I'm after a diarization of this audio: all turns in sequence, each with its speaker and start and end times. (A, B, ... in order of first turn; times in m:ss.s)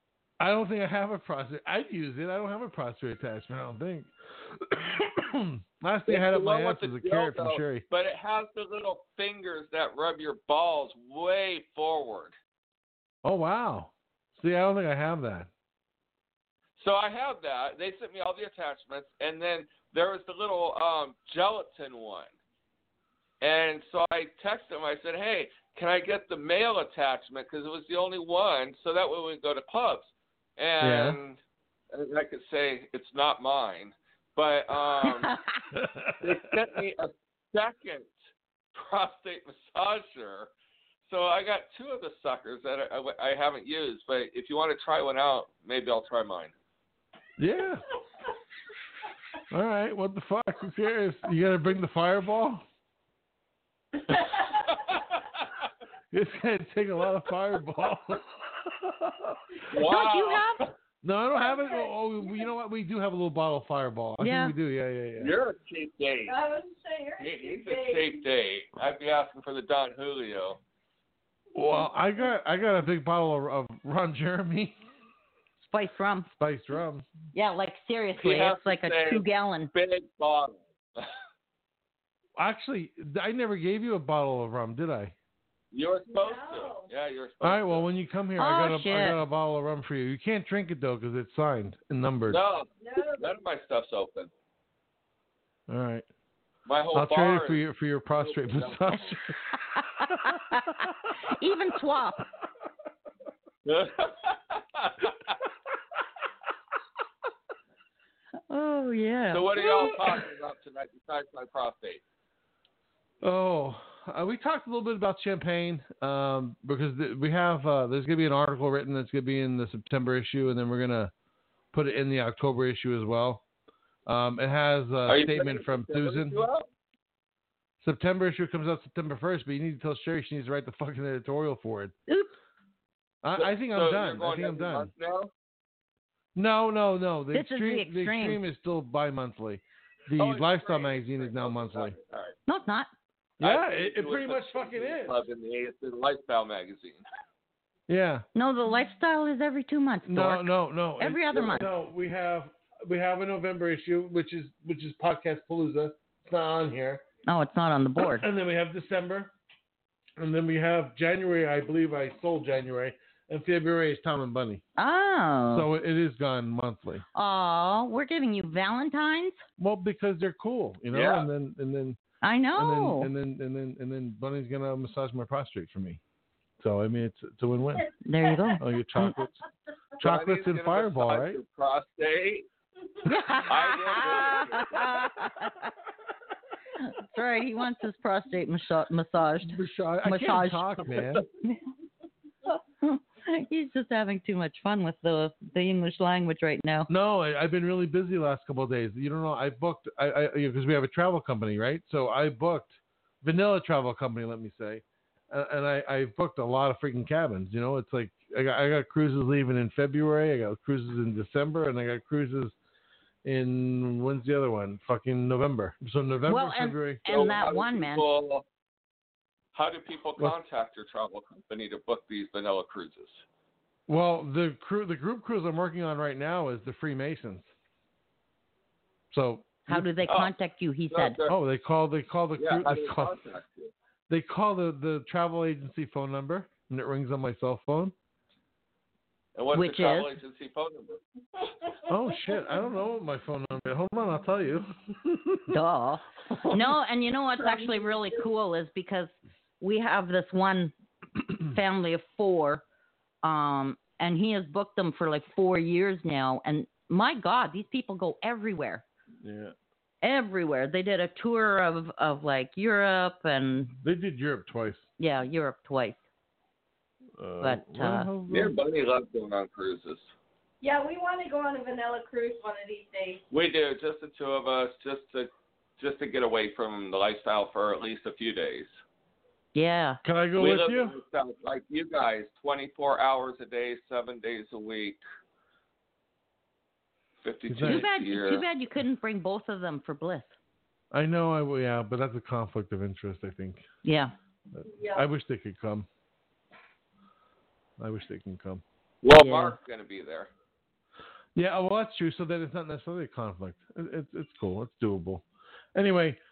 0:00.4-0:07.9 A
0:06.1-0:12.4 B
0:13.2-0:15.5 A
0:16.8-0:22.3 B
0:23.4-0:31.4 B
0:30.8-0:31.2 A
0:31.9-0:35.4 B
0:35.7-0:36.3 A
0:36.2-0:38.2 B
0:38.7-0:40.5 B
0:41.1-0:46.5 B
0:47.4-0:47.8 A
0:49.5-0:52.6 A
0:54.7-0:55.6 B
0:56.1-0:59.5 A
0:59.7-1:00.7 B
0:59.8-1:00.6 C
1:01.0-1:05.3 A
1:01.3-1:02.5 D
1:04.2-1:04.6 C
1:05.2-1:06.4 B
1:06.3-1:08.2 D
1:07.2-1:10.6 B
1:11.5-1:14.8 A
1:15.6-1:16.3 C
1:16.4-1:17.1 A
1:17.3-1:19.7 C
1:18.2-1:21.1 B
1:22.4-1:25.1 A
1:25.7-1:27.9 B
1:26.1-1:26.9 D
1:27.4-1:32.4 A
1:28.4-1:29.2 C
1:32.3-1:34.3 B
1:32.8-1:33.3 D
1:35.7-1:36.1 A
1:36.7-1:37.6 B
1:36.9-1:40.5 A
1:38.2-1:39.2 B
1:39.5-1:42.3 C
1:43.7-1:45.4 B
1:48.5-1:50.0 C
1:49.3-1:52.0 B
1:53.2-2:01.1 A
2:01.7-2:03.4 A
2:04.1-2:06.4 A
2:05.1-2:06.7 B
2:07.8-2:12.0 A
2:13.2-2:14.9 A
2:13.4-2:15.3 B
2:16.4-2:22.0 A
2:17.3-2:18.4 C
2:20.2-2:22.4 B
2:22.5-2:22.9 C
2:23.4-2:25.2 A
2:23.4-2:27.0 B
2:27.9-2:28.2 A
2:28.4-2:31.7 C
2:30.1-2:37.0 A
2:37.3-2:38.3 C
2:38.0-2:39.3 A
2:40.2-2:44.6 A
2:44.8-2:45.7 C
2:45.5-2:47.0 A
2:47.2-2:49.4 C
2:49.6-2:52.0 A
2:50.9-2:51.3 B
2:52.2-2:53.1 C
2:52.6-2:56.0 A
2:56.6-2:57.9 A
2:57.8-2:58.5 D
2:58.0-2:59.2 C
2:58.6-2:59.4 A
3:00.0-3:01.4 A
3:00.0-3:02.5 B
3:03.1-3:05.7 C
3:03.5-3:05.1 B
3:06.8-3:11.6 C
3:09.4-3:11.2 A
3:12.8-3:16.9 C
3:16.9-3:32.5 A
3:33.2-3:37.0 A
3:36.3-3:38.1 C
3:37.1-3:38.4 B
3:39.5-3:43.2 B
3:43.9-3:47.5 A
3:49.1-3:49.9 A
3:49.7-3:51.2 C
3:50.1-3:50.3 B
3:50.9-3:51.4 B
3:51.3-3:53.2 A
3:52.4-3:53.7 B
3:54.1-3:57.9 A
3:59.4-4:01.0 B
3:59.5-4:00.1 C
4:01.9-4:05.5 A
4:05.5-4:10.7 C
4:07.4-4:08.2 D
4:11.5-4:12.6 C
4:13.2-4:18.8 C
4:19.2-4:19.5 A
4:20.0-4:23.8 C
4:23.8-4:24.9 A
4:25.0-4:26.0 C
4:27.2-4:28.6 A
4:27.4-4:28.1 C
4:28.3-4:30.1 B
4:30.6-4:33.2 D
4:33.3-4:38.7 B
4:39.6-4:40.0 C
4:40.0-4:41.0 A
4:40.4-4:45.0 B
4:47.2-4:48.4 B
4:47.5-4:47.9 A
4:47.6-4:50.4 C
4:50.9-4:53.6 A
4:53.8-4:54.1 C
4:54.6-4:55.9 A
4:54.6-4:55.1 D
4:57.8-4:58.6 A
4:59.0-5:00.3 B
4:59.2-4:59.6 C
5:01.4-5:06.2 A